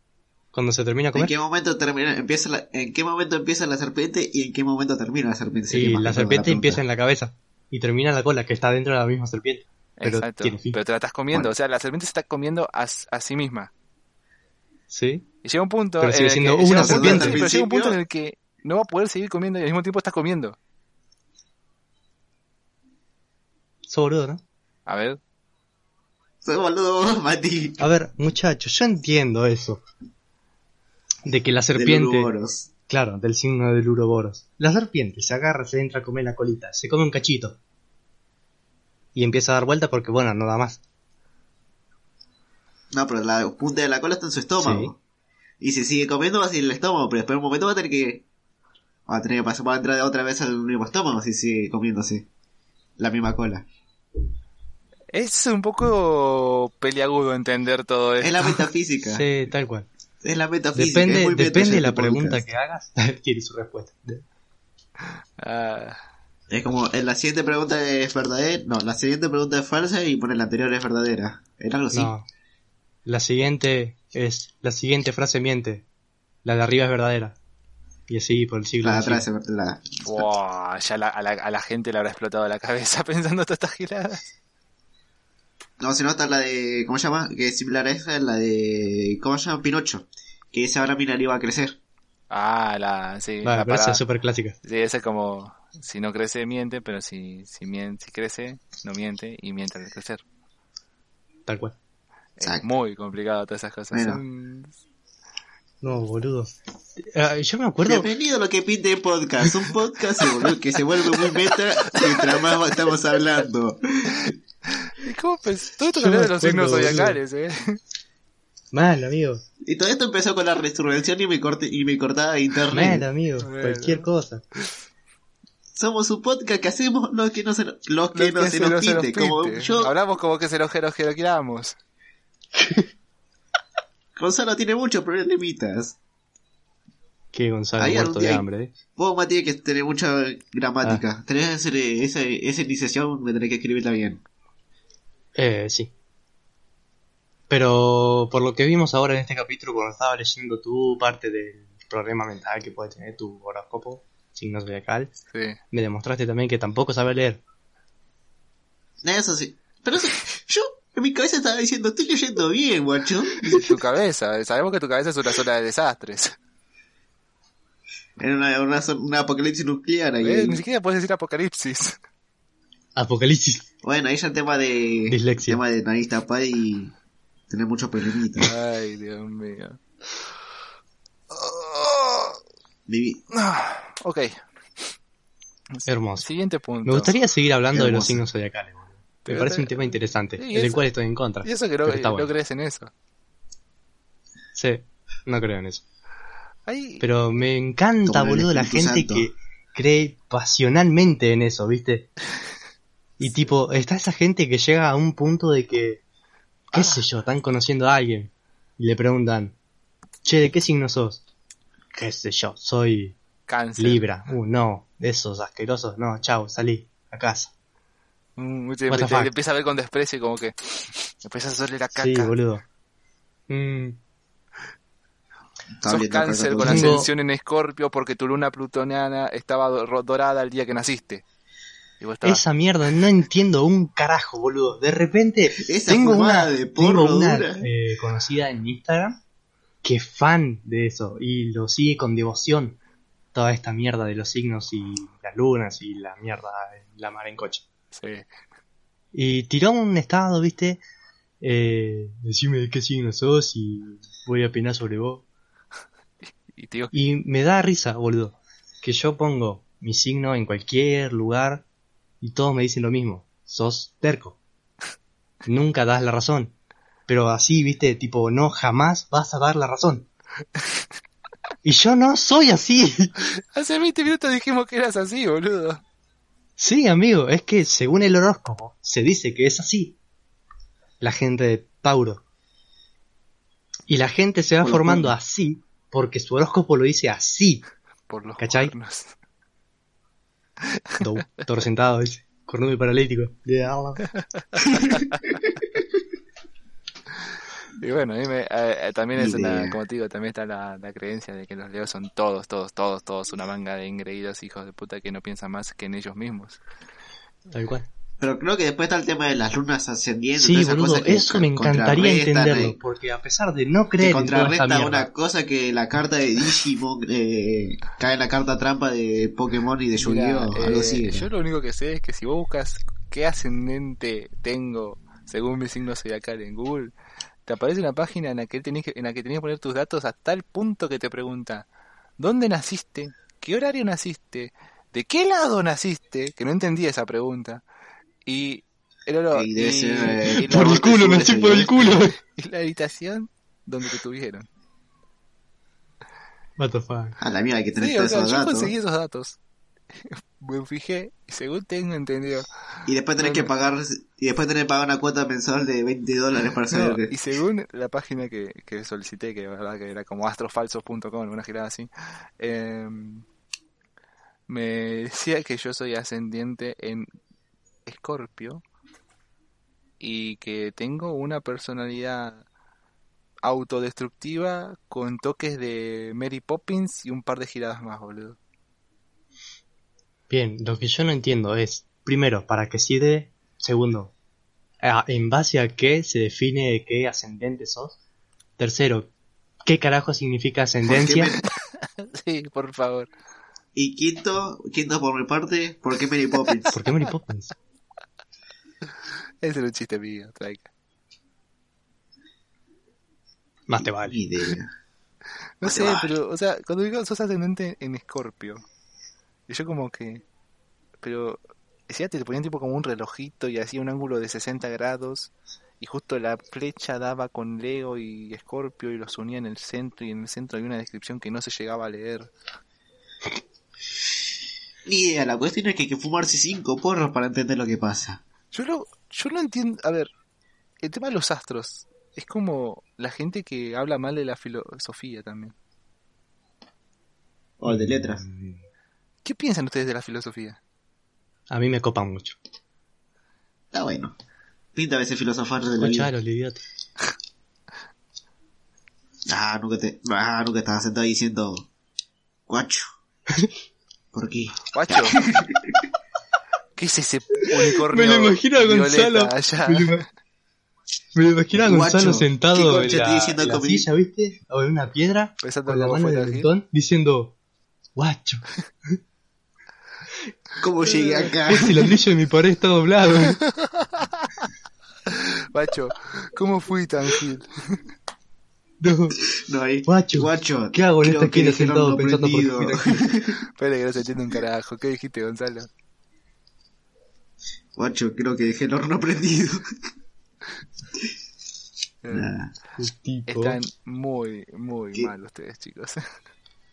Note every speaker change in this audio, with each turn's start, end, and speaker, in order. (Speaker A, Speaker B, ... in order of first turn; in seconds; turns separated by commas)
Speaker A: 0.5-1.3, Speaker B: 1.1-6.8, Speaker A: 5.7-10.8, Speaker C: 10.0-13.7, Speaker A: 14.9-15.2, Speaker C: 15.4-20.6, Speaker A: 16.0-17.4, Speaker B: 16.7-18.0, Speaker A: 23.9-24.4, Speaker C: 24.9-25.2, Speaker B: 26.4-27.8, Speaker A: 27.8-29.8, Speaker A: 31.2-32.3, Speaker B: 31.7-32.7, Speaker A: 32.9-37.6, Speaker A: 39.1-40.8, Speaker B: 42.9-45.0, Speaker A: 44.6-44.9, Speaker B: 45.6-48.2, Speaker B: 49.1-52.3, Speaker B: 53.0-53.6, Speaker C: 55.1-58.6, Speaker B: 58.2-59.2, Speaker A: 59.1-59.9, Speaker B: 60.2-62.4, Speaker A: 60.7-64.2, Speaker C: 65.4-66.0, Speaker B: 66.5-72.1, Speaker A: 71.9-72.2, Speaker A: 73.0-75.8, Speaker A: 76.4-77.3, Speaker A: 78.1-79.2, Speaker B: 78.8-80.2, Speaker C: 80.0-84.2, Speaker B: 85.8-91.8, Speaker C: 92.3-94.0, Speaker A: 93.4-94.5, Speaker C: 94.6-100.2, Speaker A: 101.5-101.8, Speaker C: 102.4-104.7, Speaker B: 102.4-102.7, Speaker B: 103.9-104.2, Speaker A: 105.8-108.1, Speaker B: 107.8-114.3, Speaker C: 112.0-112.6, Speaker C: 114.7-117.8, Speaker A: 115.9-117.2, Speaker A: 118.7-119.4, Speaker B: 119.6-123.0, Speaker A: 122.7-124.4, Speaker C: 123.4-124.1, Speaker B: 125.7-129.9, Speaker C: 128.1-131.8, Speaker A: 132.5-132.9, Speaker B: 134.2-136.0, Speaker A: 137.3-138.7, Speaker B: 137.8-144.2, Speaker A: 145.3-145.9, Speaker A: 147.5-155.1, Speaker C: 155.3-155.6, Speaker A: 155.7-157.4, Speaker B: 159.0-163.7, Speaker C: 163.4-166.3, Speaker B: 168.2-170.6, Speaker C: 170.2-172.0, Speaker A: 172.9-173.6, Speaker B: 173.8-176.9, Speaker A: 175.1-175.6, Speaker B: 177.5-178.5, Speaker C: 178.4-179.8, Speaker C: 181.3-182.4, Speaker B: 182.9-183.2, Speaker C: 183.3-184.4, Speaker C: 185.7-187.1, Speaker A: 185.9-186.3, Speaker A: 186.8-192.3, Speaker B: 187.7-188.2, Speaker C: 189.3-190.8, Speaker C: 191.4-192.9, Speaker A: 194.5-195.8, Speaker C: 196.7-197.0, Speaker A: 197.0-202.1, Speaker B: 198.1-199.3, Speaker A: 203.2-206.0, Speaker C: 203.2-203.5, Speaker C: 206.7-207.0, Speaker A: 206.7-209.5, Speaker A: 210.2-211.2, Speaker A: 211.9-213.2, Speaker C: 213.5-214.0, Speaker A: 213.8-217.5, Speaker C: 218.4-222.3, Speaker A: 218.9-219.3, Speaker A: 221.9-222.6, Speaker A: 223.5-224.0, Speaker B: 225.8-227.0, Speaker C: 225.9-231.2, Speaker A: 226.6-227.1, Speaker C: 232.0-232.4, Speaker A: 232.2-239.2, Speaker B: 235.6-237.7, Speaker A: 239.8-242.8, Speaker A: 243.3-247.6, Speaker C: 247.9-248.2, Speaker A: 249.1-250.8, Speaker A: 251.4-255.2, Speaker C: 256.5-256.9, Speaker A: 256.9-261.6, Speaker A: 262.2-264.4, Speaker A: 265.4-266.5, Speaker A: 267.1-270.1, Speaker A: 271.6-273.1, Speaker C: 273.4-275.8, Speaker A: 276.6-279.9, Speaker A: 281.0-282.2, Speaker A: 283.9-287.6, Speaker B: 284.6-285.1, Speaker C: 288.1-289.1, Speaker A: 288.4-288.7, Speaker C: 290.6-291.1, Speaker A: 291.0-294.0, Speaker C: 294.2-295.2, Speaker C: 297.8-306.6, Speaker B: 299.1-299.8, Speaker A: 307.5-307.9, Speaker B: 308.2-312.8, Speaker A: 310.4-315.1, Speaker B: 314.0-321.3, Speaker C: 320.0-326.9, Speaker C: 327.4-331.6, Speaker C: 332.2-337.6, Speaker C: 338.2-344.4, Speaker B: 339.3-341.9, Speaker A: 340.4-342.2, Speaker A: 346.6-347.2, Speaker B: 347.2-348.7, Speaker C: 347.8-349.4, Speaker C: 349.9-352.5, Speaker B: 352.9-357.1, Speaker C: 353.2-353.5, Speaker C: 356.7-361.9, Speaker C: 362.4-363.2, Speaker C: 364.5-367.1, Speaker C: 367.9-368.6, Speaker C: 370.0-372.4, Speaker C: 373.4-378.4, Speaker A: 380.3-384.1, Speaker A: 384.8-388.0, Speaker A: 388.6-389.1, Speaker A: 389.6-391.3, Speaker B: 390.9-391.4, Speaker C: 391.8-393.1, Speaker B: 393.7-396.8, Speaker A: 396.7-397.5, Speaker C: 399.4-400.7, Speaker A: 403.7-404.2, Speaker B: 403.8-404.7, Speaker C: 405.6-408.6, Speaker B: 405.6-406.1, Speaker C: 409.5-410.2, Speaker C: 411.0-422.3, Speaker B: 424.9-428.2, Speaker C: 428.5-430.1, Speaker C: 430.8-435.5, Speaker B: 437.6-438.2, Speaker A: 437.7-438.6, Speaker C: 439.2-440.6, Speaker A: 441.5-442.4, Speaker B: 443.7-444.1, Speaker B: 444.7-446.1, Speaker A: 445.8-446.6, Speaker B: 449.3-451.7, Speaker B: 452.5-452.9, Speaker B: 454.1-455.7, Speaker C: 454.7-455.2, Speaker C: 456.8-460.1, Speaker A: 457.4-460.0, Speaker A: 461.1-467.3, Speaker B: 461.5-463.9, Speaker C: 465.4-466.5, Speaker A: 467.9-468.9, Speaker B: 470.6-471.9, Speaker C: 470.8-471.3, Speaker A: 471.5-473.4, Speaker C: 473.2-474.5, Speaker C: 475.1-477.8, Speaker A: 478.8-479.2, Speaker B: 479.2-483.4, Speaker A: 479.9-483.0, Speaker C: 483.5-485.7, Speaker B: 487.8-489.6, Speaker C: 492.0-492.3, Speaker B: 492.1-492.5, Speaker A: 492.8-493.6, Speaker C: 493.3-496.0